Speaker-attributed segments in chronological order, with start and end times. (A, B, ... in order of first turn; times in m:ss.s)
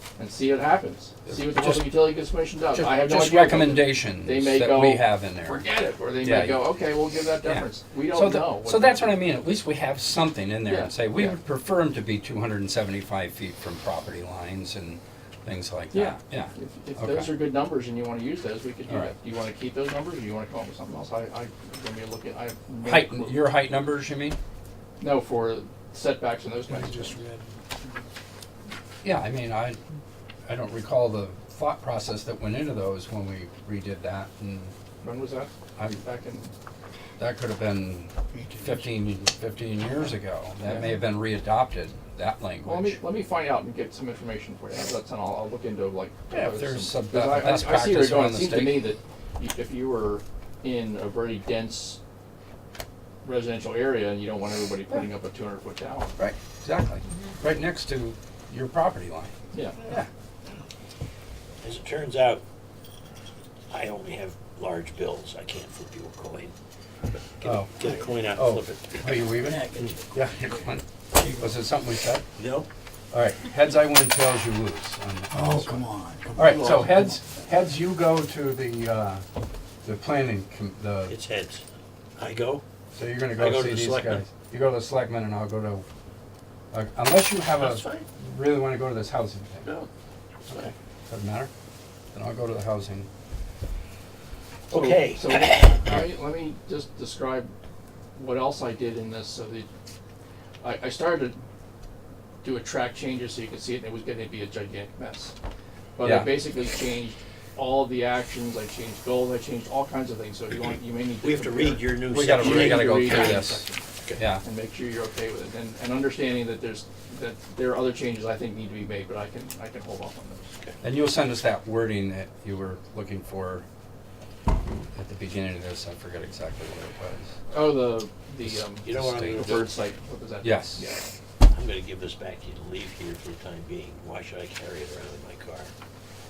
0:00.2-0:09.2 A
0:01.3-0:02.2 B
0:02.7-0:05.7 B
0:06.2-0:06.7 B
0:07.4-0:17.3 B
0:10.6-0:11.4 A
0:15.9-0:23.6 A
0:18.9-0:19.1 B
0:22.8-0:24.4 B
0:25.0-0:27.2 A
0:26.7-0:28.1 C
0:29.0-0:29.8 B
0:30.5-0:34.7 B
0:35.0-0:36.5 A
0:35.8-0:36.0 B
0:37.2-0:43.0 B
0:38.3-0:38.9 C
0:40.6-0:41.0 A
0:42.6-0:52.0 A
0:46.3-0:48.9 B
0:53.2-0:56.2 A
0:56.2-1:00.1 B
0:59.5-0:59.8 A
1:01.6-1:02.4 D
1:03.7-1:06.5 D
1:07.4-1:09.4 D
1:07.4-1:07.7 B
1:08.3-1:12.2 B
1:09.3-1:11.7 C
1:12.4-1:12.7 D
1:13.1-1:15.8 B
1:15.3-1:17.2 C
1:16.4-1:19.2 B
1:16.4-1:16.8 A
1:19.8-1:21.2 B
1:21.1-1:21.6 D
1:22.2-1:22.6 D
1:22.9-1:25.8 B
1:23.4-1:24.3 D
1:26.7-1:29.7 B
1:27.6-1:28.1 D
1:30.5-1:30.7 D
1:30.5-1:31.5 B
1:32.1-1:33.1 B
1:34.7-1:35.9 D
1:34.7-1:37.5 A
1:35.9-1:36.1 B
1:38.2-1:39.7 A
1:40.6-1:41.4 A
1:42.4-1:45.3 A
1:46.0-1:53.8 A
1:46.0-1:46.4 B
1:51.2-1:53.4 D
1:52.1-1:53.6 B
1:54.2-1:54.4 B
1:54.4-2:00.5 A
2:00.8-2:03.7 B
2:04.9-2:07.3 B
2:07.5-2:11.1 A
2:08.4-2:09.7 B
2:08.8-2:09.7 D
2:10.4-2:10.9 B
2:11.5-2:15.7 D